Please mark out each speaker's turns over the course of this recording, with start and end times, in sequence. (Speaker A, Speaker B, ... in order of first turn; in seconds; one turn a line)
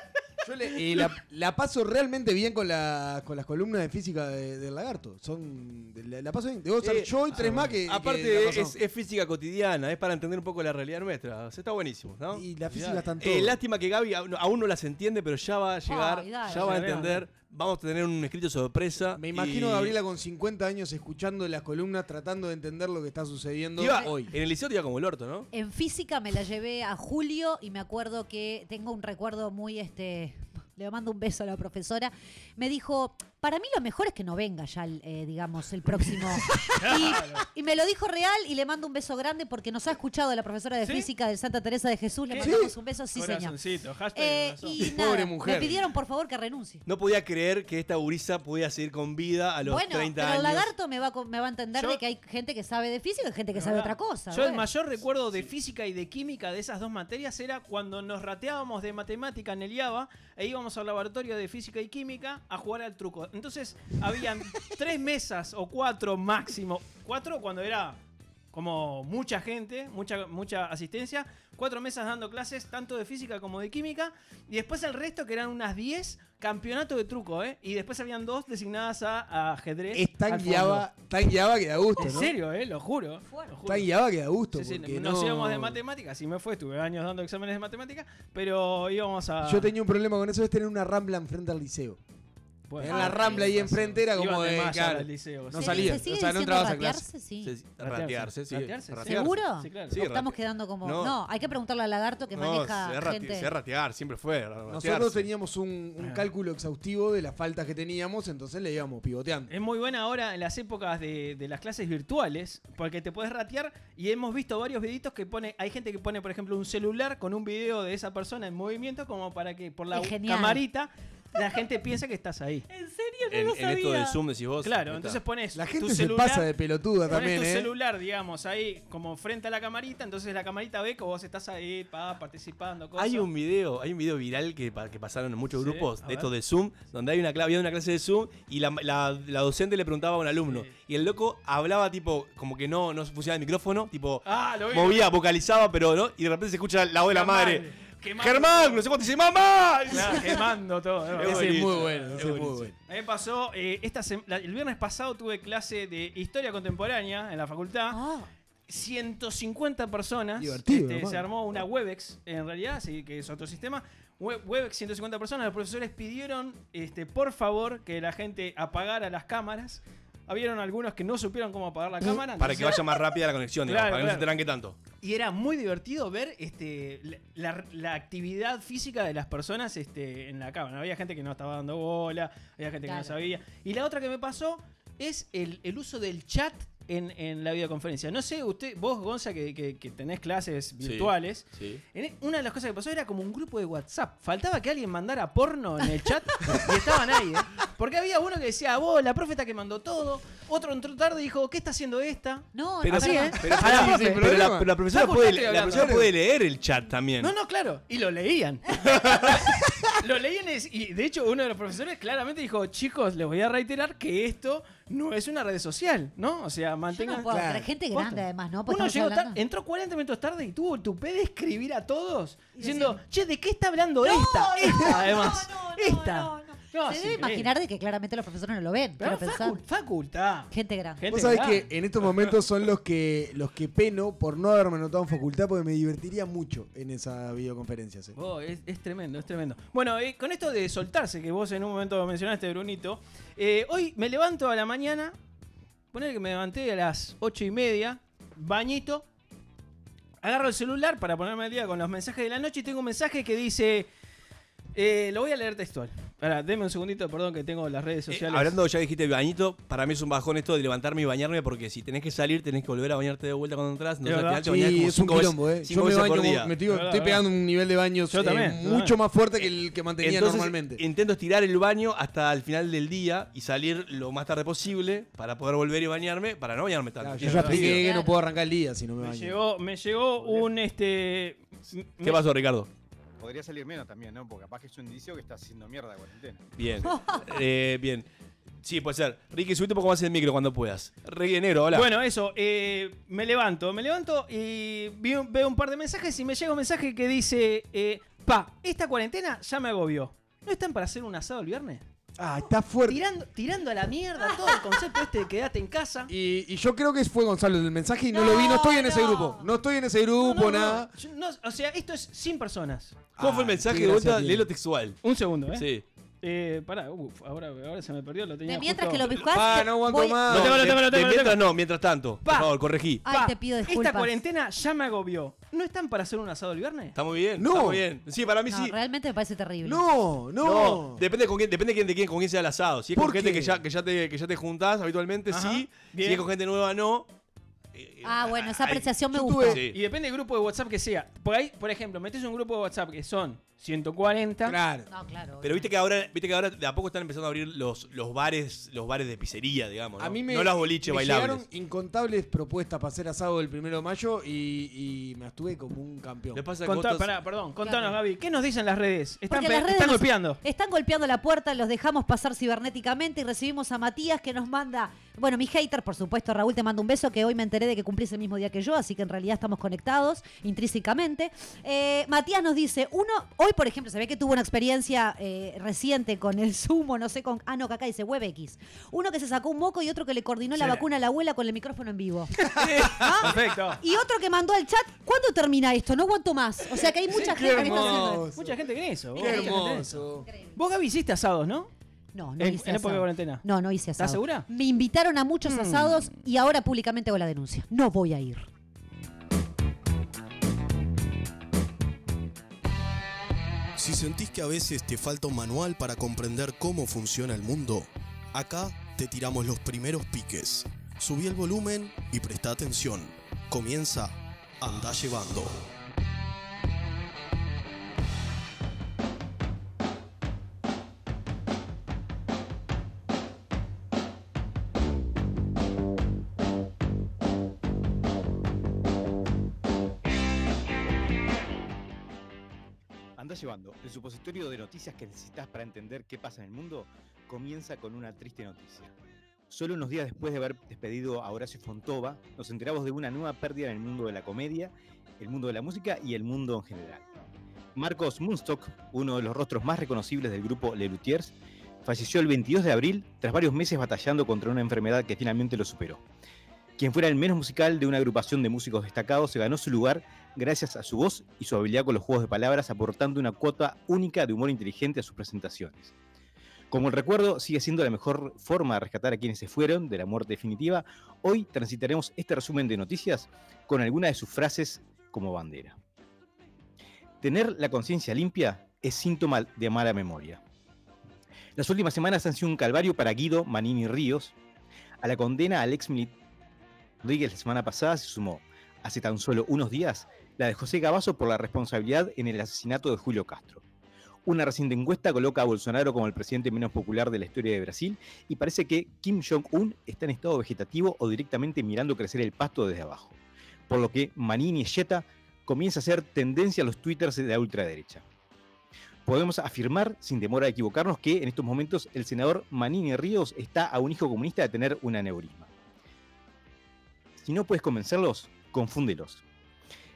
Speaker A: 0.4-8.8
Speaker B: 6.8-12.5
Speaker A: 12.3-13.6
Speaker C: 12.7-13.0
Speaker B: 13.2-19.9
Speaker D: 15.8-17.0
Speaker C: 16.4-17.2
Speaker A: 19.1-24.3
Speaker B: 23.8-25.5
Speaker D: 25.5-43.5
Speaker C: 36.6-37.4
Speaker C: 40.8-41.1
Speaker C: 42.3-44.9
Speaker A: 42.4-42.7
Speaker D: 44.1-46.8
Speaker A: 44.8-45.8
Speaker B: 46.9-50.7
Speaker D: 49.6-54.6
Speaker C: 51.7-52.0
Speaker C: 53.5-68.0
Speaker C: 68.5-80.9
Speaker A: 79.9-82.3
Speaker C: 82.0-83.9
Speaker A: 83.7-85.8
Speaker C: 84.5-89.7
Speaker A: 89.4-92.0
Speaker C: 92.7-96.0
Speaker A: 92.8-97.0
Speaker D: 92.9-93.4
Speaker D: 95.5-97.5
Speaker B: 97.4-101.2
Speaker C: 97.8-100.0
Speaker D: 99.0-103.5
Speaker B: 102.3-105.3
Speaker A: 104.7-109.5
Speaker C: 106.0-106.2
Speaker C: 109.5-122.7
Speaker D: 119.9-120.6
Speaker D: 122.7-124.2
Speaker B: 123.3-125.2
Speaker C: 124.6-126.5
Speaker A: 125.5-127.7
Speaker C: 127.1-133.3
Speaker B: 133.0-150.5
Speaker C: 135.6-136.3
Speaker C: 140.5-140.7
Speaker C: 144.2-145.1
Speaker C: 147.1-148.8
Speaker C: 149.9-152.2
Speaker B: 151.1-152.7
Speaker A: 151.2-152.7
Speaker C: 152.9-158.0
Speaker D: 157.9-158.3
Speaker C: 158.7-172.9
Speaker A: 160.4-161.3
Speaker B: 172.3-174.8
Speaker C: 173.7-174.3
Speaker C: 175.0-204.3
Speaker D: 182.8-183.1
Speaker B: 190.8-191.8
Speaker D: 202.5-203.4
Speaker B: 202.8-207.3
Speaker A: 203.4-204.7
Speaker C: 204.9-206.1
Speaker A: 205.7-206.1
Speaker C: 207.2-227.5
Speaker D: 216.9-219.4
Speaker A: 217.3-217.7
Speaker D: 222.6-223.0
Speaker D: 224.0-229.6
Speaker C: 229.0-231.7
Speaker D: 230.5-231.1
Speaker A: 231.1-238.2
Speaker C: 238.2-245.2
Speaker C: 245.9-249.0
Speaker C: 250.2-253.9
Speaker C: 254.7-258.6
Speaker B: 258.1-266.6
Speaker C: 264.0-264.4
Speaker A: 264.4-270.8
Speaker C: 266.6-267.2
Speaker C: 268.1-268.9
Speaker B: 270.0-277.9
Speaker A: 277.0-279.4
Speaker D: 277.5-278.1
Speaker C: 279.0-282.2
Speaker B: 282.0-282.7
Speaker E: 283.2-286.5
Speaker B: 286.6-288.1
Speaker B: 288.6-291.9
Speaker C: 291.7-301.8
Speaker A: 302.2-303.0
Speaker C: 302.9-306.1
Speaker A: 306.1-310.9
Speaker D: 308.1-309.5
Speaker C: 310.2-313.1
Speaker A: 313.1-314.5
Speaker B: 313.2-315.0
Speaker C: 315.0-315.7
Speaker B: 315.5-315.8
Speaker C: 316.2-319.1
Speaker D: 318.4-320.3
Speaker A: 319.3-320.7
Speaker B: 320.3-323.0
Speaker C: 320.3-321.4
Speaker C: 322.2-326.9
Speaker D: 323.0-324.1
Speaker B: 326.9-328.7
Speaker A: 327.4-327.8
Speaker D: 328.5-329.8
Speaker A: 329.6-331.0
Speaker B: 330.4-337.1
Speaker A: 332.9-333.6
Speaker C: 335.3-336.2
Speaker B: 337.7-338.9
Speaker D: 338.0-339.6
Speaker A: 339.1-339.6
Speaker B: 339.5-339.8
Speaker C: 339.7-344.6
Speaker A: 344.4-344.9
Speaker D: 344.9-345.7
Speaker B: 345.4-351.4
Speaker A: 350.0-356.4
Speaker B: 356.3-357.1
Speaker C: 356.6-360.4
Speaker D: 357.6-358.0
Speaker D: 359.3-388.2
Speaker C: 380.6-380.8
Speaker C: 382.4-383.8
Speaker C: 387.0-390.0
Speaker A: 387.1-390.3
Speaker D: 389.2-389.6
Speaker D: 390.2-390.6
Speaker C: 390.5-391.7
Speaker D: 392.1-398.5
Speaker C: 392.4-393.4
Speaker C: 393.9-394.5
Speaker C: 395.5-396.0
Speaker F: 403.7-415.7
Speaker E: 433.2-438.9
Speaker E: 439.5-447.0
Speaker E: 447.7-451.3
Speaker E: 451.8-456.0
Speaker E: 456.8-465.9
Speaker E: 466.7-475.8
Speaker E: 477.2-480.4
Speaker E: 481.6-484.3
Speaker E: 485.0-486.1
Speaker E: 487.0-493.6
Speaker E: 494.2-503.1
Speaker E: 503.7-508.0
Speaker E: 509.1-515.5
Speaker E: 517.2-519.2